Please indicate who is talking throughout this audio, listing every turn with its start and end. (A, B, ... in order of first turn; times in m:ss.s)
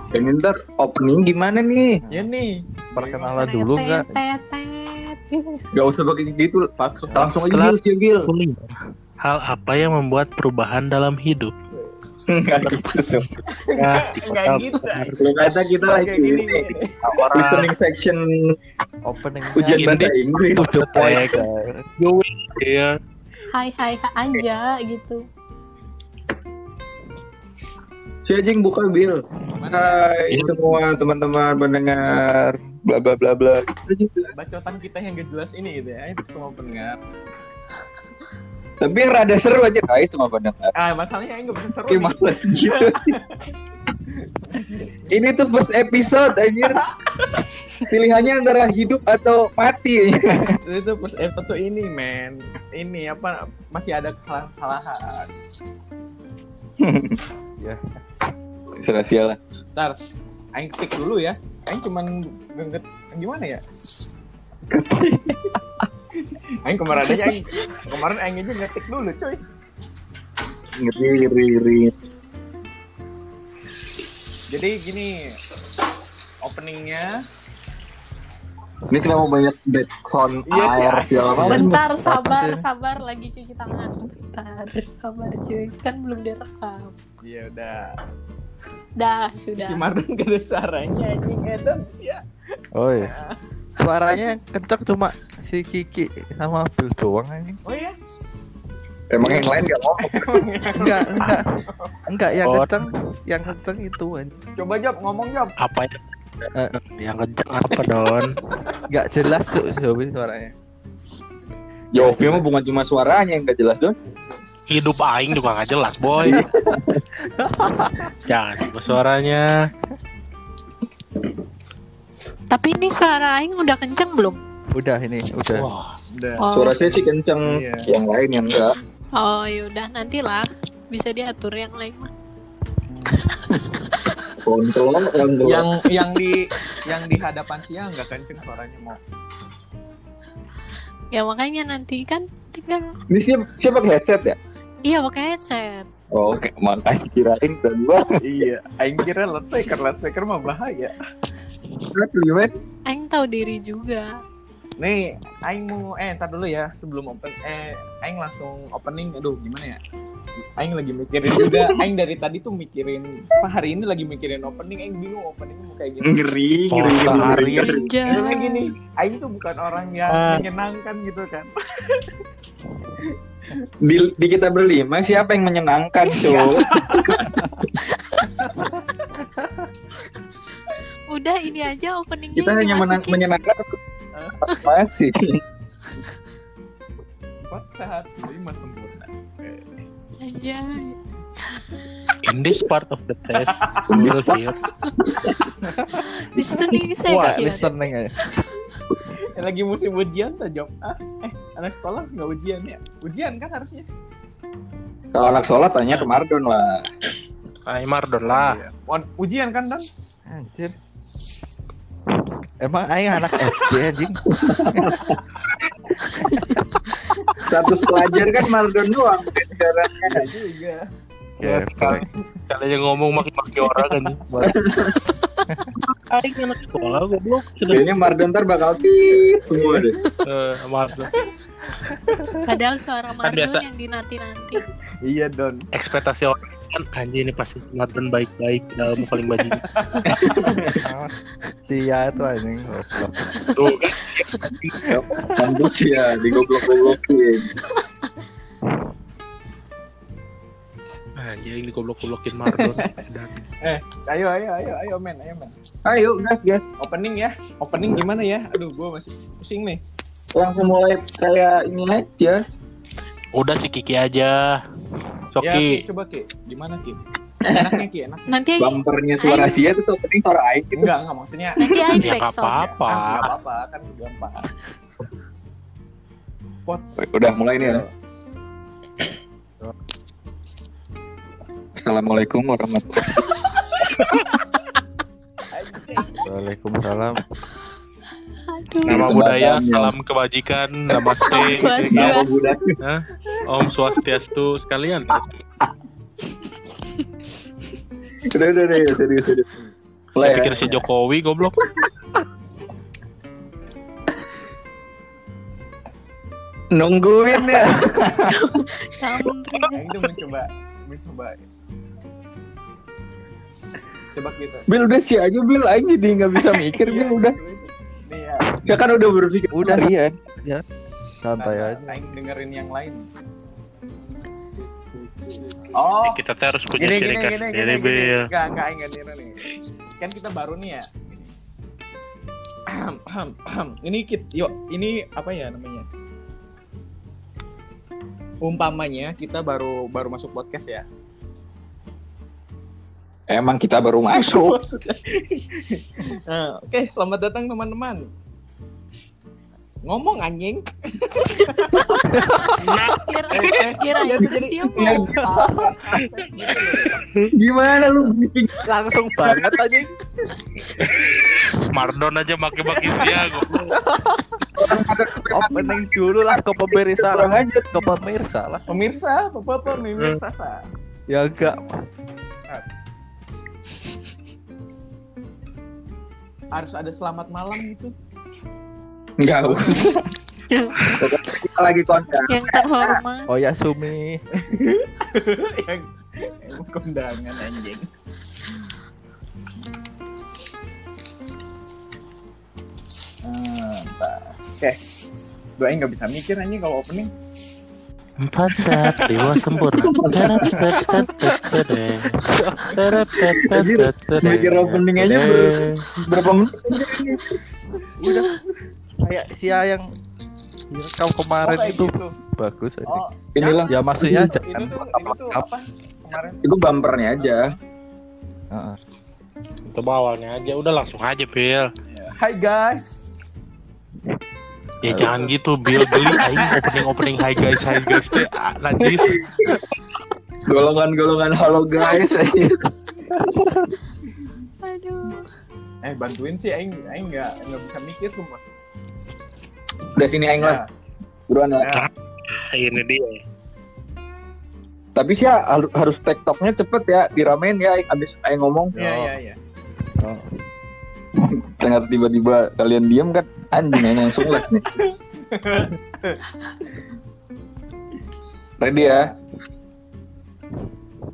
0:00.1-0:02.0 A
0:02.1-0:03.4 B
0:02.9-0:04.2 C
0:03.3-0:05.6 D
0:05.7-0:08.3 A
0:06.8-0:07.2 B
0:07.2-0:11.5 E
0:12.3-0:13.3 A
0:12.6-0:15.2 E
0:13.4-0:15.2 B
0:15.1-0:18.5 A
0:15.8-0:16.9 B
0:17.2-0:17.7 E
0:19.0-0:19.9 C
0:19.5-0:21.2 A
0:19.7-0:21.4 E
0:20.5-0:21.8 C
0:22.0-0:23.0 E
0:23.5-0:25.2 D
0:28.2-0:34.3 A
0:29.6-0:30.0 B
0:30.3-0:30.8 E
0:34.3-0:37.0 B
0:38.8-0:40.7 A
0:40.8-0:43.4 B
0:41.9-0:43.2 A
0:44.2-0:45.1 B
0:45.1-0:46.8 A
0:46.7-0:47.5 B
0:47.9-0:50.6 A
0:50.6-0:55.3 B
0:56.8-0:57.2 A
0:58.8-0:59.4 A
1:00.5-1:03.6 B
1:04.7-1:05.6 A
1:06.6-1:09.4 B
1:10.8-1:11.9 A
1:14.5-1:15.1 B
1:16.4-1:17.2 B
1:18.9-1:21.8 A
1:20.4-1:21.6 B
1:21.2-1:21.7 E
1:21.4-1:27.0 D
1:21.7-1:22.6 C
1:27.2-1:27.9 B
1:29.0-1:29.8 D
1:29.5-1:32.2 B
1:32.8-1:33.1 C
1:33.0-1:33.4 B
1:33.8-1:37.6 C
1:37.6-1:37.9 B
1:39.1-1:40.3 A
1:39.2-1:39.5 B
1:40.0-1:41.9 B
1:40.7-1:41.4 C
1:42.1-1:44.4 C
1:42.4-1:42.7 E
1:44.6-1:45.5 B
1:45.6-1:46.0 E
1:46.7-1:48.3 E
1:48.9-1:50.5 C
1:51.9-1:53.9 A
1:52.0-1:52.4 E
1:54.7-1:56.4 E
1:56.2-1:56.7 C
1:56.2-1:56.7 A
1:57.6-1:58.0 C
1:58.3-1:59.5 E
2:02.5-2:04.4 D
2:04.7-2:05.7 C
2:05.5-2:05.9 E
2:06.1-2:07.9 B
2:06.4-2:06.8 D
2:06.5-2:08.7 A
2:09.1-2:12.1 D
2:12.9-2:13.2 B
2:14.4-2:15.7 A
2:15.4-2:19.0 B
2:21.1-2:22.8 D
2:23.1-2:24.4 A
2:24.8-2:25.8 D
2:26.1-2:28.2 A
2:28.2-2:30.9 B
2:31.9-2:32.5 A
2:32.9-2:34.1 D
2:34.8-2:39.8 B
2:40.6-2:46.2 B
2:46.0-2:48.0 A
2:46.7-2:47.8 E
2:47.0-2:47.4 B
2:47.4-2:48.7 D
2:48.0-2:52.0 B
2:50.1-2:50.4 E
2:53.8-2:57.3 A
2:56.2-2:57.1 B
3:01.1-3:03.2 D
3:02.3-3:03.6 A
3:04.4-3:05.4 A
3:07.4-3:09.7 B
3:10.2-3:11.0 D
3:12.2-3:14.6 E
3:13.5-3:13.8 B
3:13.9-3:14.4 A
3:15.0-3:15.5 A
3:16.0-3:18.5 D
3:16.4-3:18.1 C
3:19.1-3:23.9 B
3:25.1-3:26.9 A
3:25.9-3:26.1 E
3:27.6-3:28.6 E
3:28.2-3:29.9 B
3:30.3-3:30.7 C
3:32.6-3:35.0 C
3:34.3-3:35.7 A
3:36.3-3:36.8 C
3:37.5-3:40.2 A
3:40.0-3:40.8 B
3:41.4-3:42.0 C
3:42.0-3:42.2 B
3:42.5-3:44.2 E
3:44.3-3:44.5 C
3:44.4-3:44.9 A
3:46.1-3:47.8 E
3:47.7-3:50.0 A
3:49.1-3:49.9 B
3:50.2-3:51.1 E
3:51.8-3:52.2 B
3:52.4-3:54.6 D
3:53.2-3:53.6 E
3:55.0-3:55.7 B
3:55.7-3:59.7 E
3:59.8-4:00.5 B
4:00.0-4:00.6 A
4:01.7-4:03.1 C
4:03.6-4:04.8 E
4:04.9-4:07.5 A
4:11.2-4:13.4 E
4:12.5-4:12.8 B
4:13.6-4:15.5 B
4:15.8-4:16.6 A
4:16.8-4:19.8 B
4:20.3-4:22.4 A
4:23.3-4:24.6 E
4:25.3-4:25.8 E
4:25.4-4:28.3 B
4:27.5-4:27.7 A
4:28.3-4:29.6 D
4:28.6-4:30.9 A
4:30.7-4:34.4 B
4:31.6-4:32.6 D
4:32.0-4:33.3 E
4:37.0-4:37.8 A
4:37.6-4:37.9 B
4:41.8-4:43.3 A
4:45.5-4:46.2 B
4:46.2-4:47.2 C
4:48.5-4:49.1 D
4:48.8-4:49.9 A
4:48.9-4:52.2 E
4:51.2-4:52.4 D
4:51.9-4:52.7 A
4:52.8-4:55.3 E
4:58.3-4:59.5 A
5:00.1-5:00.8 A
5:00.2-5:01.6 E
5:06.7-5:08.3 A
5:07.3-5:07.7 D
5:08.2-5:09.9 D
5:09.7-5:11.4 B
5:14.1-5:14.6 B
5:14.7-5:17.4 A
5:16.5-5:18.4 B
5:18.6-5:19.9 A
5:19.5-5:20.6 C
5:21.2-5:22.0 C
5:21.4-5:23.0 B
5:24.9-5:26.2 B
5:26.0-5:28.2 E
5:26.8-5:29.5 B
5:30.0-5:31.3 B
5:32.7-5:35.8 B
5:38.4-5:40.8 B
5:43.3-5:44.6 A
5:44.1-5:48.1 B
5:49.8-5:52.0 B
5:51.9-5:53.0 C
5:52.4-5:55.1 D
5:53.3-5:57.0 B
5:54.2-5:55.2 A
5:55.2-5:55.7 C
5:57.3-5:58.6 A
5:58.6-5:59.9 C
6:01.5-6:03.7 E
6:03.7-6:04.2 C
6:04.6-6:07.8 A
6:05.3-6:08.6 C
6:08.7-6:10.6 B
6:11.1-6:11.6 C
6:16.5-6:17.9 B
6:19.2-6:20.0 A
6:19.4-6:19.8 B
6:20.5-6:21.0 D
6:20.9-6:23.0 A
6:22.2-6:23.3 D
6:23.3-6:24.2 C
6:24.4-6:27.9 B
6:33.2-6:34.8 B
6:35.6-6:37.1 B
6:38.2-6:42.2 E
6:38.6-6:39.5 B
6:39.8-6:40.5 A
6:42.2-6:42.8 C
6:42.7-6:45.8 E
6:43.4-6:47.3 A
6:48.0-6:48.3 C
6:49.0-6:49.9 C
6:50.7-6:53.0 C
6:51.4-6:52.1 B
6:52.8-6:57.3 B
6:53.3-6:54.3 A
6:53.7-6:55.4 C
6:56.4-6:57.5 A
6:58.5-6:58.8 C
6:59.7-7:01.7 E
7:01.9-7:03.1 B
7:04.8-7:09.2 E
7:04.9-7:05.2 C
7:05.2-7:06.8 B
7:09.0-7:09.6 A
7:10.5-7:12.6 A
7:14.6-7:15.2 D
7:15.8-7:18.4 B
7:20.0-7:20.6 A
7:20.4-7:20.7 B
7:21.3-7:21.8 A
7:21.6-7:21.9 B
7:22.5-7:23.2 E
7:25.0-7:28.8 A
7:28.8-7:29.4 B
7:30.0-7:30.2 C
7:31.2-7:34.6 A
7:33.9-7:36.2 B
7:38.6-7:39.1 A